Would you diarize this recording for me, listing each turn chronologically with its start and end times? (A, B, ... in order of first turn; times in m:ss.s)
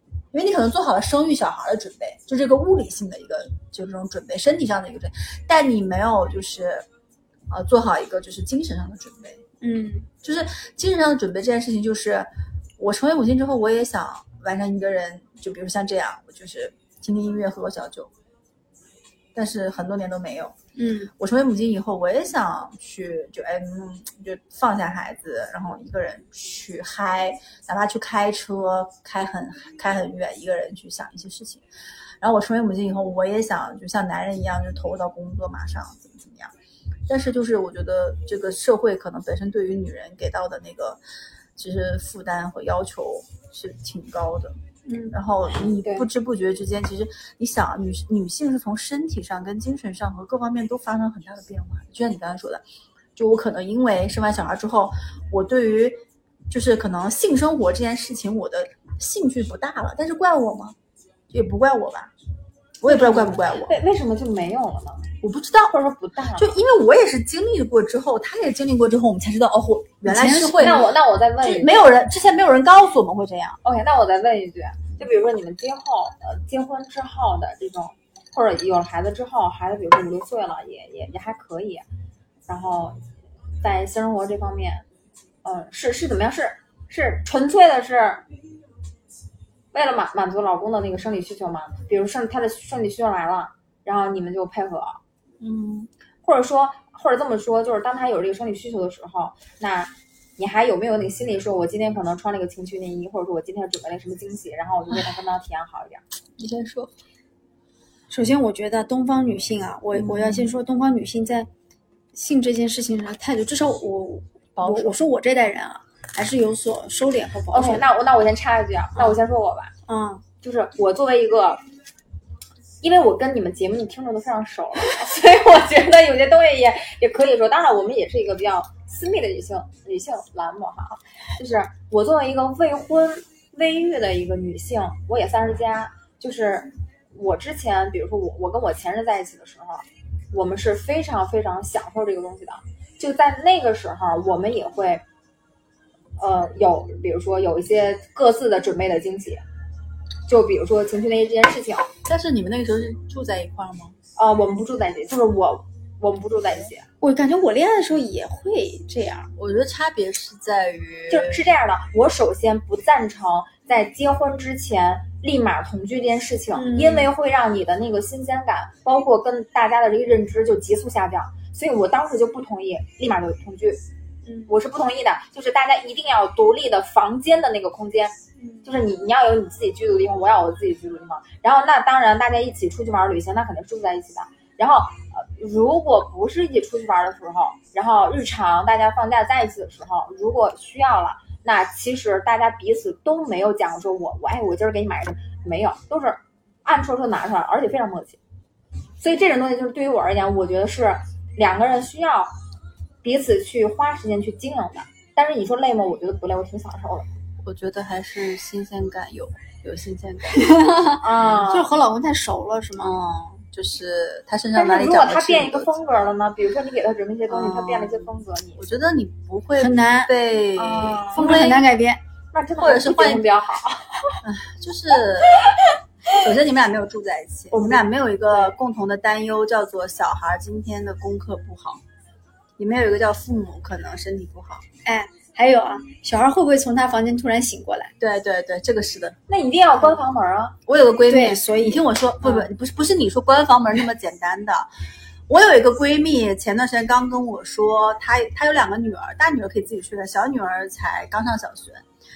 0:00.3-0:06.9 A
0:07.5-0:09.4 A
0:09.6-0:10.1 B
0:10.2-0:18.1 A
0:19.4-0:20.6 A
0:20.8-0:21.1 B
0:21.2-0:31.6 A
0:32.2-0:36.5 A
0:37.1-0:41.0 A
0:41.6-0:44.6 A
0:44.9-0:45.2 B
0:45.1-0:52.6 A
0:45.8-0:46.1 C
0:53.2-1:00.8 A
1:01.3-1:02.1 A
1:02.8-1:03.8 A
1:02.9-1:05.1 C
1:05.2-1:05.7 A
1:05.7-1:06.6 C
1:06.4-1:13.6 A
1:10.0-1:10.8 B
1:10.6-1:11.8 C
1:13.6-1:21.8 C
1:22.5-1:23.0 C
1:23.6-1:24.9 C
1:25.4-1:28.2 C
1:29.7-1:35.0 C
1:35.4-1:35.9 A
1:36.2-1:46.0 C
1:46.4-1:46.9 A
1:48.1-1:51.5 B
1:49.9-1:50.5 A
1:52.1-1:57.9 B
1:54.6-1:55.0 A
1:57.5-1:59.7 C
1:59.9-2:00.2 B
2:00.4-2:01.6 C
2:02.8-2:25.0 C
2:26.2-2:29.4 C
2:30.3-2:31.9 C
2:32.0-2:34.0 A
2:34.2-2:36.9 C
2:37.0-2:39.3 B
2:39.4-2:41.5 A
2:41.1-2:53.8 C
2:46.5-2:47.1 B
2:54.2-2:54.5 B
2:54.5-3:18.2 C
2:58.4-2:58.7 B
3:19.0-3:22.3 C
3:23.0-3:27.1 C
3:27.4-3:30.6 A
3:30.3-3:33.0 B
3:31.0-3:31.7 C
3:32.8-3:35.7 A
3:34.5-3:38.7 C
3:37.3-3:41.6 A
3:39.6-3:40.1 B
3:40.6-3:41.6 C
3:41.1-3:42.0 B
3:42.3-3:44.2 C
3:42.6-3:43.3 A
3:44.2-3:45.5 A
3:46.1-3:51.8 A
3:47.5-3:48.6 C
3:52.6-3:54.6 A
3:54.8-3:57.9 B
3:58.0-3:59.2 A
3:59.3-4:00.6 C
4:00.7-4:04.7 A
4:01.1-4:01.8 B
4:05.3-4:11.8 A